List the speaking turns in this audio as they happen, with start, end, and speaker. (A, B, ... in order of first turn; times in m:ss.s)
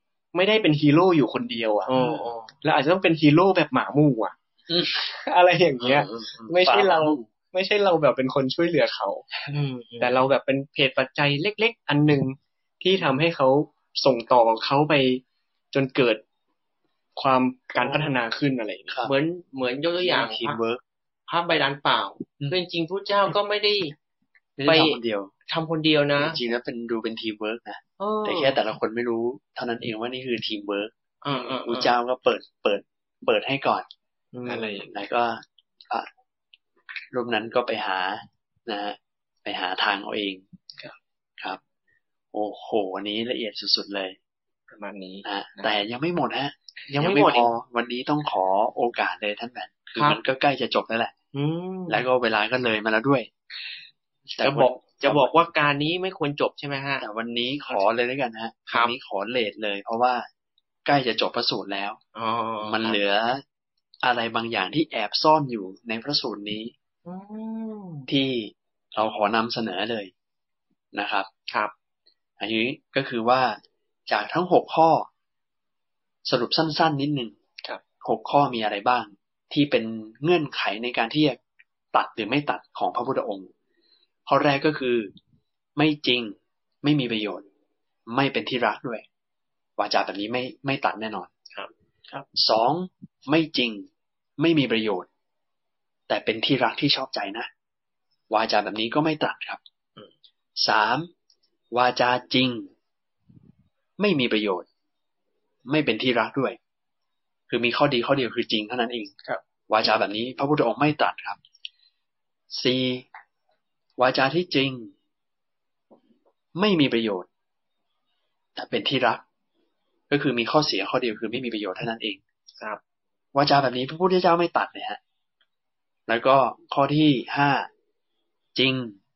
0:00.3-0:01.9 A
0:01.9-0:02.5 B
0:02.6-0:09.3 A
0:04.7-0:05.0 C
0:06.2-0:07.2 C
0:09.5-0:10.2 B
0:10.0-0:16.2 A
0:17.2-0:19.0 A
0:17.8-0:18.1 B
0:19.0-0:20.6 B
0:20.0-0:20.8 C
0:21.3-0:23.9 B
0:24.6-0:25.3 C
0:24.6-0:26.4 B
0:26.2-0:30.9 C
0:28.0-0:28.6 B
0:31.2-0:31.9 B
0:31.3-0:31.6 A
0:31.6-0:33.8 C
0:34.3-0:34.8 B
0:34.4-0:34.9 A
0:34.9-0:36.1 C
0:37.1-0:40.4 C
0:42.3-0:44.2 C
0:44.8-0:45.1 A
0:44.8-0:45.2 B
0:45.2-0:51.1 C
0:46.9-0:47.4 B
0:46.9-0:47.4 A
0:51.3-0:52.0 B
0:51.9-0:53.3 C
0:54.4-0:55.3 C
0:54.4-0:57.0 B
0:57.0-1:00.3 C
0:58.7-0:58.9 B
1:00.8-1:02.0 C
1:02.1-1:03.0 B
1:02.6-1:03.4 C
1:04.0-1:06.7 C
1:07.0-1:08.1 B
1:08.1-1:10.1 C
1:10.9-1:11.3 C
1:12.4-1:13.6 C
1:14.1-1:15.1 C
1:16.2-1:17.3 C
1:18.0-1:21.4 C
1:21.9-1:23.5 C
1:24.3-1:25.1 C
1:25.8-1:27.4 C
1:28.1-1:29.0 C
1:29.8-1:31.3 C
1:32.3-1:35.1 C
1:36.1-1:37.5 C
1:38.3-1:39.6 C
1:40.6-1:41.1 C
1:41.7-1:42.7 C
1:44.0-1:44.6 C
1:45.7-1:46.6 C
1:47.5-1:49.1 C
1:49.7-1:51.4 C
1:52.5-1:53.0 C
1:54.0-1:54.9 C
1:56.6-1:57.3 C
1:58.6-1:59.2 C
2:00.1-2:02.2 C
2:03.3-2:05.0 C
2:06.1-2:07.7 C
2:08.6-2:09.0 C